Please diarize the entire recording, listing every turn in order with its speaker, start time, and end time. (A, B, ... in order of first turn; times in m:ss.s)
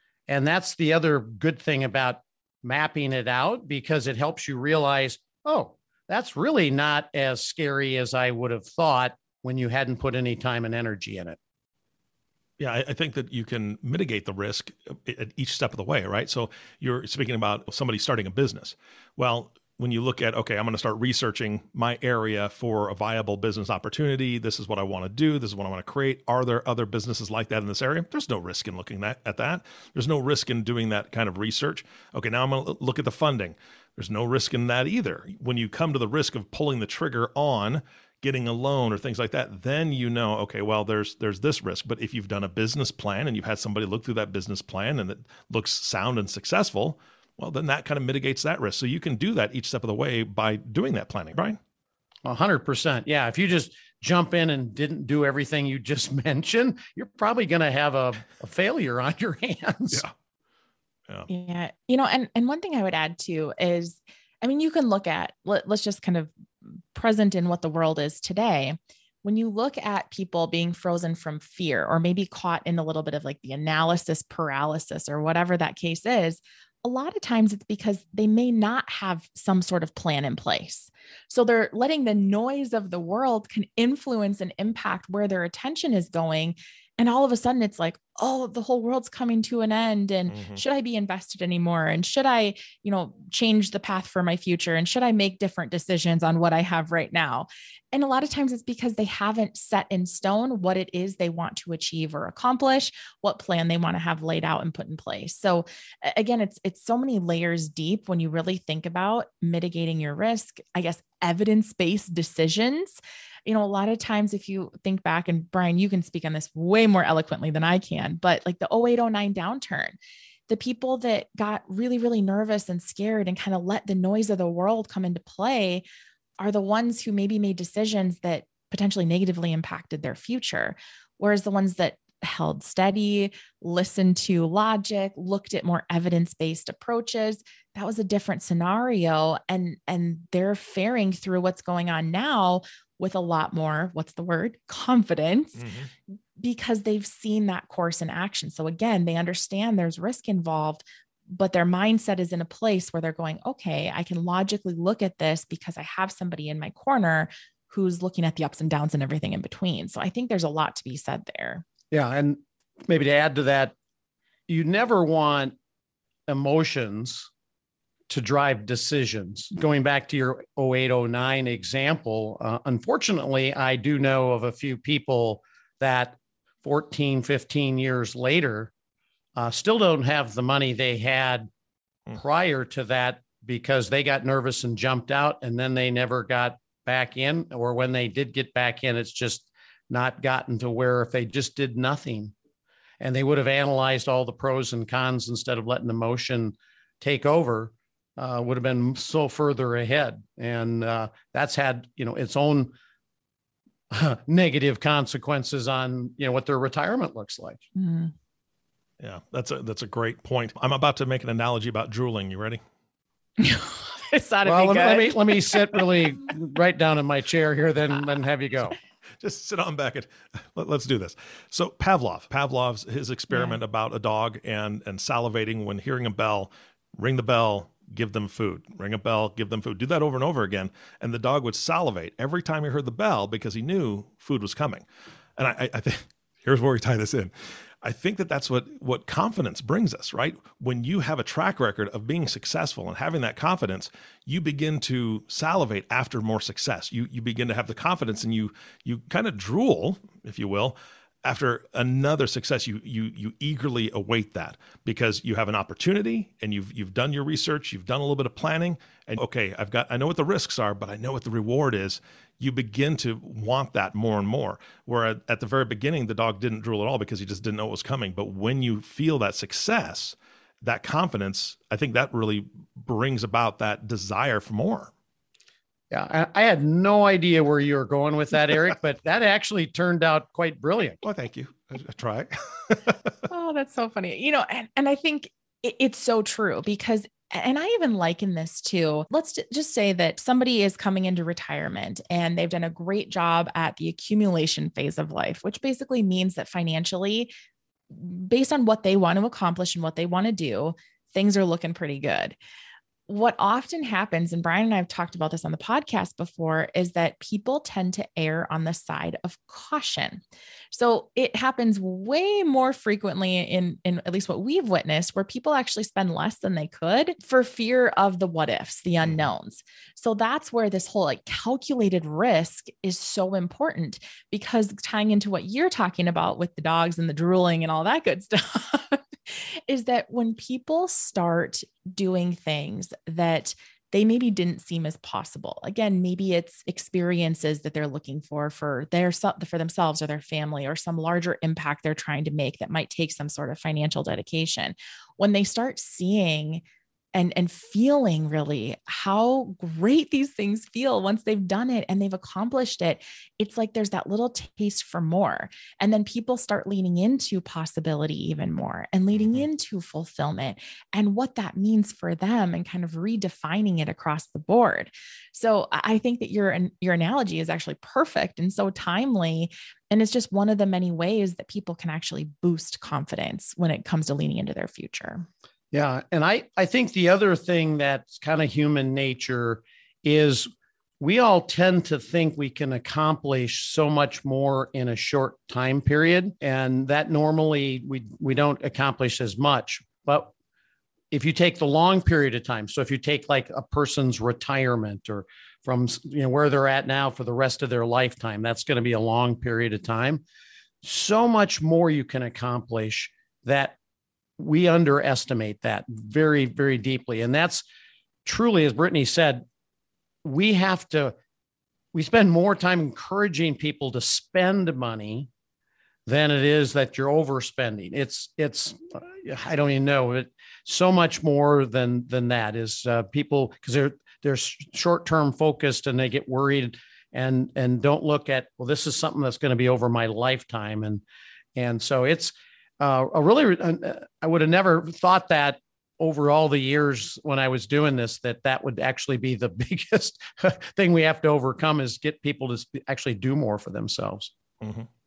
0:00.3-0:11.4 A
0:12.6-0:51.6 B
0:52.2-1:00.0 A
1:01.3-2:00.0 C
1:30.3-1:30.6 B
2:00.5-2:05.8 C
2:06.4-2:25.7 C
2:25.6-2:25.9 B
2:26.4-2:41.6 C
2:41.9-2:43.7 A
2:44.5-2:45.6 A
2:46.3-2:47.3 A
2:48.1-2:58.7 A
2:59.4-3:01.5 A
3:02.1-3:12.3 A
3:13.0-3:22.7 A
3:23.9-3:27.6 A
3:27.8-3:28.1 C
3:29.0-3:32.6 B
3:33.4-3:35.9 C
3:34.4-3:38.8 A
3:39.2-3:54.8 B
3:43.3-3:43.6 C
3:55.4-4:34.9 B
4:35.9-4:41.0 A
4:41.0-4:43.1 B
4:43.3-4:57.3 C
4:57.9-5:02.4 C
5:03.1-5:10.2 C
5:10.7-5:46.6 C
5:47.1-6:15.3 C
5:59.2-5:59.4 B
6:15.7-6:20.5 A
6:21.0-6:30.3 A
6:31.1-6:40.2 A
6:40.8-6:43.8 A
6:44.4-6:47.6 A
6:48.2-6:49.4 A
6:50.2-6:51.1 A
6:51.9-6:55.3 A
6:56.1-7:11.0 A
7:11.6-7:24.3 A
7:24.6-7:24.9 B